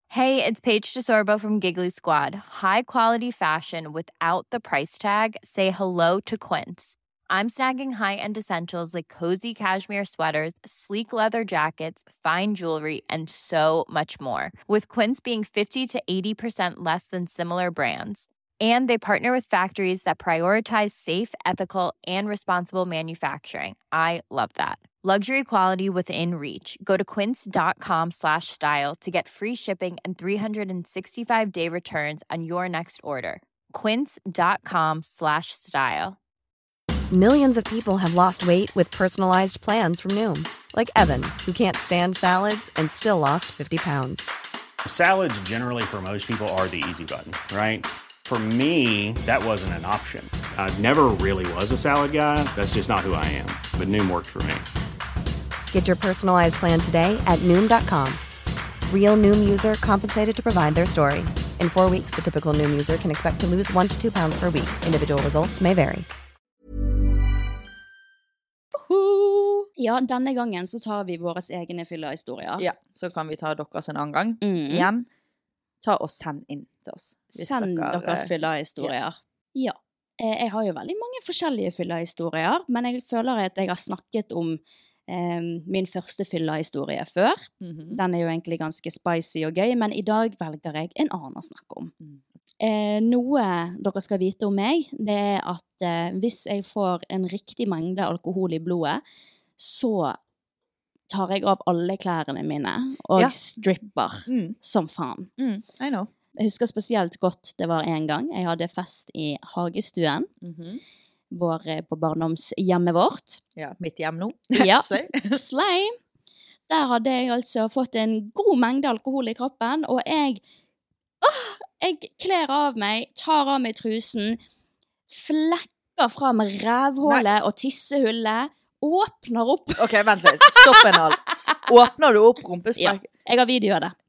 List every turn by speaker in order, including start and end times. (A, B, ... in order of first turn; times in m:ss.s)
0:00.1-0:36.2 A
0:37.1-0:44.3 B
0:44.8-0:54.7 C
0:55.7-0:58.2 B
0:58.9-1:06.1 B
1:08.9-1:12.7 D
1:12.6-1:15.1 E
1:14.4-1:14.9 D
1:15.8-1:18.9 E
1:17.4-1:31.9 D
1:27.6-1:28.0 E
1:32.6-1:39.0 D
1:39.6-1:40.2 D
1:41.1-1:45.3 D
1:44.3-1:44.6 E
1:45.4-1:46.1 E
1:46.4-1:50.3 D
1:50.4-1:50.8 E
1:51.3-1:53.4 D
1:53.6-1:55.4 E
1:54.6-1:56.0 D
1:56.7-2:00.4 D
2:01.2-2:04.4 D
2:05.1-2:11.0 D
2:09.8-2:13.0 E
2:12.8-2:13.9 D